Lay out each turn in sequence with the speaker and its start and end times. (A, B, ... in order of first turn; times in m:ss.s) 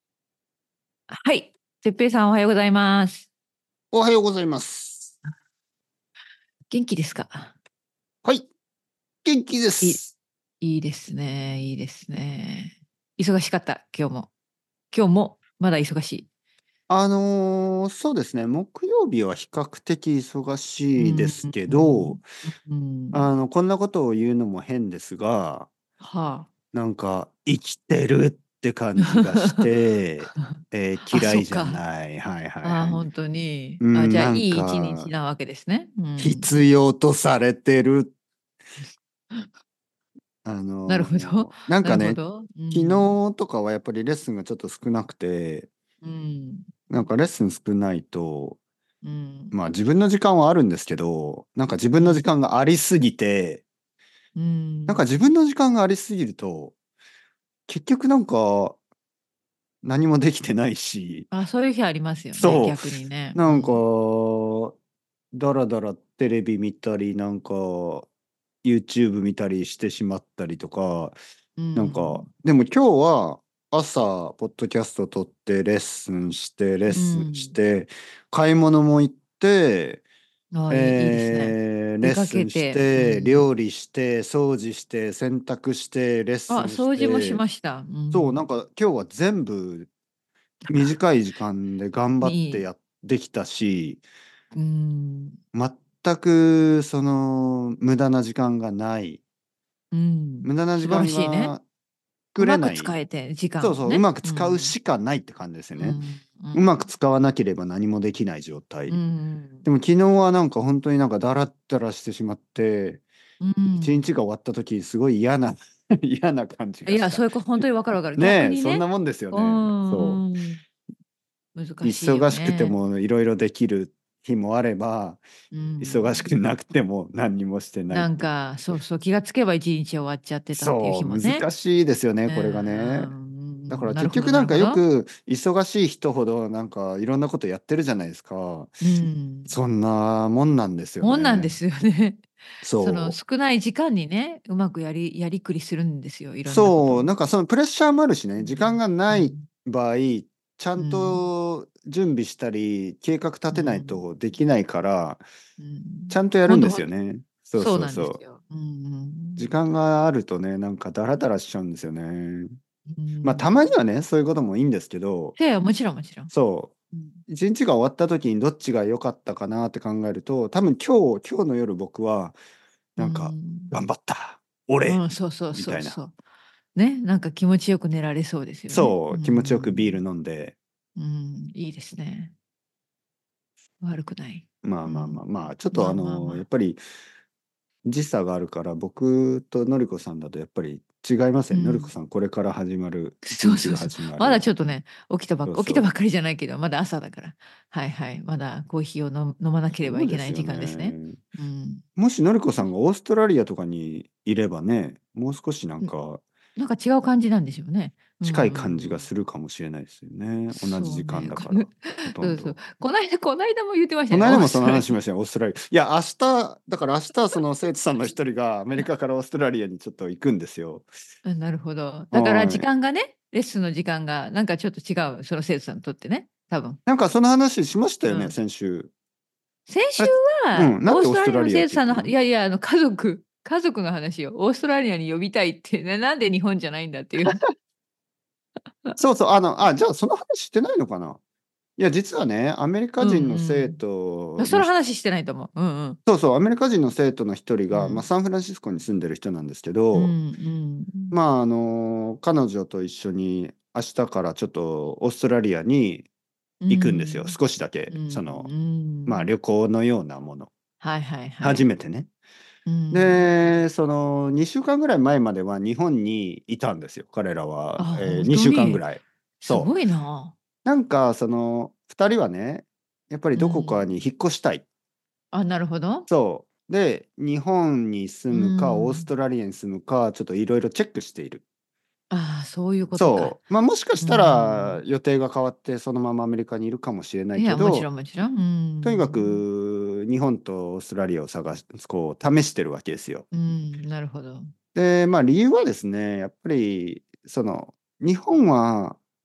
0:01.1-0:03.3 A
0:03.9-0:05.2 B
0:06.7-0:07.5 A
0:09.2-0:10.1 B
0:10.6-0:14.3 A
0:14.9-0:16.3 A
0:16.9-0:22.2 B
0:21.0-0:23.3 A
0:23.1-0:25.7 B
0:26.0-0:26.5 A
0:26.7-0:33.1 B
0:29.1-0:29.6 A
0:31.1-0:31.8 A
0:32.6-0:36.5 A
0:33.8-0:35.1 B
0:36.2-0:38.1 B
0:40.4-0:42.2 B
0:40.9-0:43.2 A
0:42.7-0:45.7 B
0:46.0-0:47.0 A
0:46.9-0:48.6 B
0:49.0-0:49.6 A
0:49.5-0:53.6 B
0:52.0-0:52.3 A
0:54.4-0:55.0 A
0:54.9-0:56.8 B
0:57.7-0:58.8 B
0:59.8-1:01.3 B
1:01.3-1:03.8 A
1:02.4-1:04.8 B
1:05.3-1:08.1 B
1:08.6-1:11.2 B
1:11.6-1:12.3 A
1:11.8-1:20.0 B
1:16.9-1:17.6 A
1:20.5-1:23.5 A
1:20.7-1:27.4 B
1:26.5-1:28.4 A
1:28.1-1:29.9 B
1:30.7-1:34.0 B
1:32.2-1:32.7 A
1:34.6-1:35.4 A
1:35.5-1:39.2 B
1:39.9-1:41.6 A
1:40.4-1:41.6 B
1:42.3-1:43.0 B
1:42.4-1:44.8 A
1:43.6-1:46.0 B
1:45.8-1:46.7 A
1:46.5-1:49.0 B
1:48.9-1:49.6 A
1:49.6-1:53.0 B
1:53.4-1:54.1 A
1:53.8-1:57.3 B
1:56.9-2:00.6 A
1:58.2-2:00.2 B
2:01.6-2:02.8 A
2:01.8-2:05.2 B
2:05.5-2:06.2 A
2:05.8-2:08.8 B
2:07.9-2:11.4 A
2:10.5-2:13.1 B
2:12.3-2:14.8 A
2:13.7-2:18.8 B
2:18.8-2:19.5 A
2:19.5-2:21.5 B
2:21.0-2:22.2 A
2:22.6-2:23.2 B
2:22.8-2:27.1 A
2:26.5-2:35.2 B
2:28.4-2:29.4 A
2:30.8-2:31.2 A
2:33.5-2:34.0 A
2:35.6-2:36.9 A
2:36.1-2:38.2 B
2:37.6-2:39.5 A
2:39.4-2:42.5 B
2:42.9-2:43.6 A
2:43.2-2:45.4 B
2:45.4-2:46.3 A
2:46.3-2:46.7 B
2:46.9-2:47.2 A
2:47.3-2:52.4 B
2:53.0-2:53.7 A
2:53.0-2:55.0 B
2:54.8-2:56.1 A
2:55.5-2:56.0 B
2:56.8-3:00.0 A
2:58.7-3:00.6 B
3:01.0-3:02.3 A
3:03.8-3:06.4 A
3:04.6-3:06.8 B
3:07.8-3:14.5 B
3:11.5-3:11.9 A
3:13.3-3:21.8 A
3:15.5-3:15.9 B
3:19.8-3:21.2 B
3:22.0-3:26.2 B
3:26.6-3:29.1 A
3:28.2-3:32.6 B
3:30.5-3:35.0 A
3:34.1-3:40.9 B
3:41.2-3:46.8 A
3:42.1-3:42.7 B
3:46.9-3:48.9 B
3:48.1-3:48.4 A
3:49.7-3:57.4 A
3:50.0-3:52.1 B
3:59.0-4:01.2 B
4:01.8-4:04.7 B
4:03.0-4:03.8 A
4:04.4-4:06.0 A
4:06.1-4:10.2 B
4:07.7-4:08.1 A
4:09.9-4:11.2 A
4:11.1-4:16.1 B
4:16.6-4:17.4 A
4:16.7-4:18.5 B
4:17.9-4:19.3 A
4:19.1-4:20.5 B
4:20.8-4:21.7 A
4:21.4-4:22.1 B
4:22.7-4:23.2 A
4:22.9-4:29.7 B
4:27.8-4:28.9 A
4:29.4-4:30.3 A
4:30.6-4:34.6 B
4:33.4-4:33.9 A
4:35.3-4:36.1 A
4:36.1-4:41.4 B
4:38.3-4:39.1 A
4:42.1-4:43.4 A
4:43.0-4:47.9 B
4:44.0-4:44.8 A
4:47.4-4:49.4 A
4:48.8-4:53.2 B
4:53.3-4:54.5 A
4:54.8-4:59.0 B